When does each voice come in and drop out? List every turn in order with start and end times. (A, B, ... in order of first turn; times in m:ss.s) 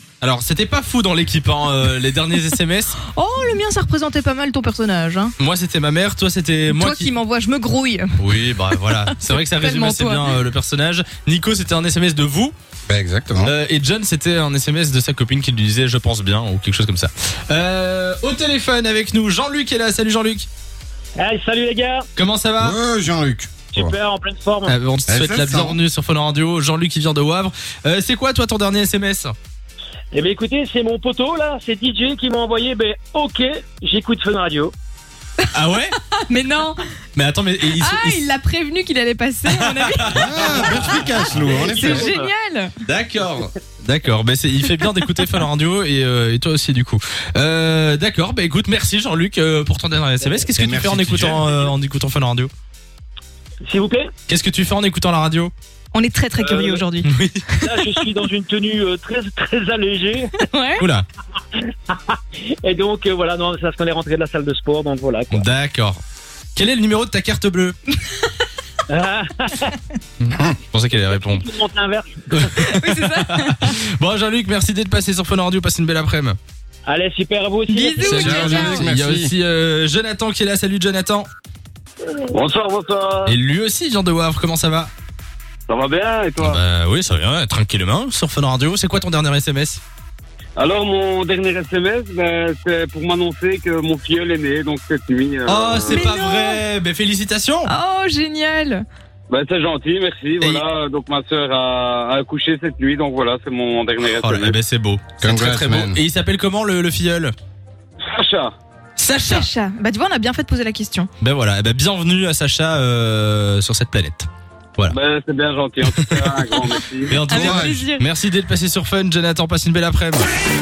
0:00.2-0:03.0 A
0:03.1-0:05.3 B
0:05.4-0:07.1 A
0:06.7-0:08.2 B
0:08.2-0:12.5 A
0:08.8-0:10.4 B
0:12.9-0:13.5 C
0:13.4-0:20.5 A
0:21.2-0:22.1 D
0:22.2-0:22.8 A
0:22.6-0:24.0 C
0:23.7-0:24.8 D
0:24.7-0:29.3 A
0:25.1-0:25.8 C
0:30.1-0:34.7 D
0:35.5-0:35.9 A
0:36.2-0:36.8 B
0:37.2-0:38.2 A
0:37.8-0:42.7 B
0:39.5-0:41.3 A
0:40.1-0:42.1 C
0:41.7-0:42.3 D
0:42.8-0:52.5 A
0:50.6-0:51.6 C
0:53.6-0:54.1 D
0:54.3-0:55.5 A
0:55.9-0:58.0 B
0:56.4-0:56.8 D
0:57.1-0:57.4 A
0:57.6-1:00.3 D
1:00.4-1:00.9 B
1:00.8-1:01.1 A
1:01.6-1:05.4 D
1:05.3-1:06.0 A
1:06.6-1:07.8 A
1:08.9-1:09.7 D
1:10.2-1:11.5 A
1:11.2-1:12.6 D
1:12.3-1:16.4 A
1:12.6-1:13.8 B
1:16.9-1:18.2 D
1:17.7-1:18.9 B
1:18.0-1:19.3 C
1:18.1-1:21.3 A
1:22.3-1:23.4 E
1:23.3-1:24.9 A
1:25.7-1:26.6 E
1:26.4-1:29.8 A
1:30.6-1:36.1 E
1:35.5-1:37.7 A
1:35.9-1:36.6 B
1:37.7-1:38.8 B
1:39.3-1:44.6 E
1:44.0-1:47.3 A
1:45.2-1:46.0 C
1:48.1-1:48.5 E
1:49.0-1:49.5 A
1:49.3-1:51.1 B
1:51.2-1:55.0 A
1:54.9-1:57.2 E
1:55.8-2:00.3 A
1:57.3-1:58.1 B
1:57.3-1:57.8 C